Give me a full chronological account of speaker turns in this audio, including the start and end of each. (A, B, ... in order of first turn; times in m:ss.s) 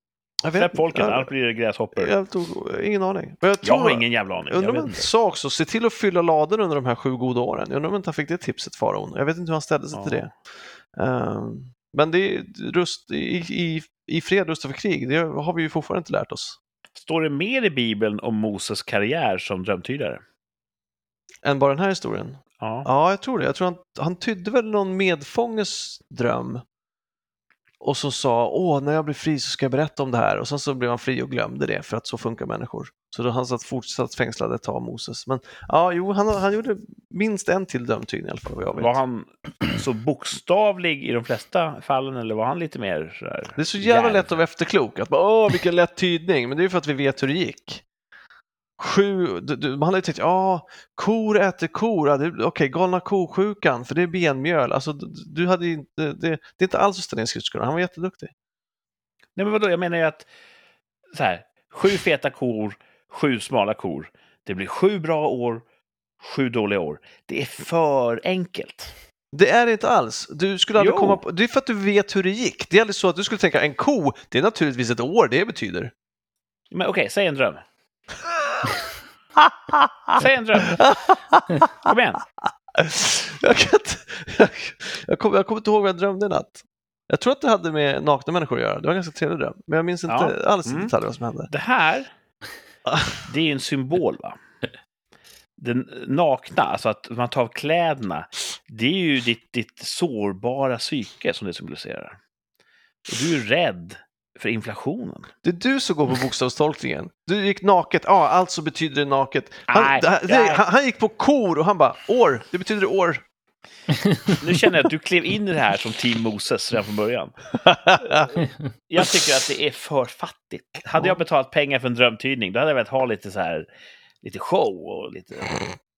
0:00.4-0:01.3 A
0:00.5-0:02.1 B
0:01.9-0:10.3 A
0:03.6-0:05.1 B
0:09.9-0:10.3 B
0:10.9-0:16.6 A
0:16.9-0:20.2 B
0:21.4-0:26.6 A
0:22.6-0:22.9 B
0:27.8-0:39.0 A
0:38.7-0:44.4 B
0:43.6-0:47.8 A
0:48.8-0:58.3 A
0:59.4-1:00.3 B
1:01.1-1:05.6 B
1:06.2-1:08.9 B
1:09.3-1:15.9 A
1:10.8-1:11.2 B
1:16.7-1:17.6 B
1:19.4-1:21.9 A
1:20.1-1:20.8 B
1:21.8-1:22.2 B
1:22.7-1:31.5 A
1:30.1-1:30.9 B
1:31.5-1:32.1 B
1:32.9-1:33.2 A
1:33.2-1:34.4 B
1:35.6-1:42.2 B
1:43.1-1:45.3 B
1:45.4-1:53.2 A
1:49.7-1:50.6 B
1:54.4-1:57.4 B
1:57.5-1:58.4 A
1:58.0-2:03.7 B
2:04.2-2:05.7 B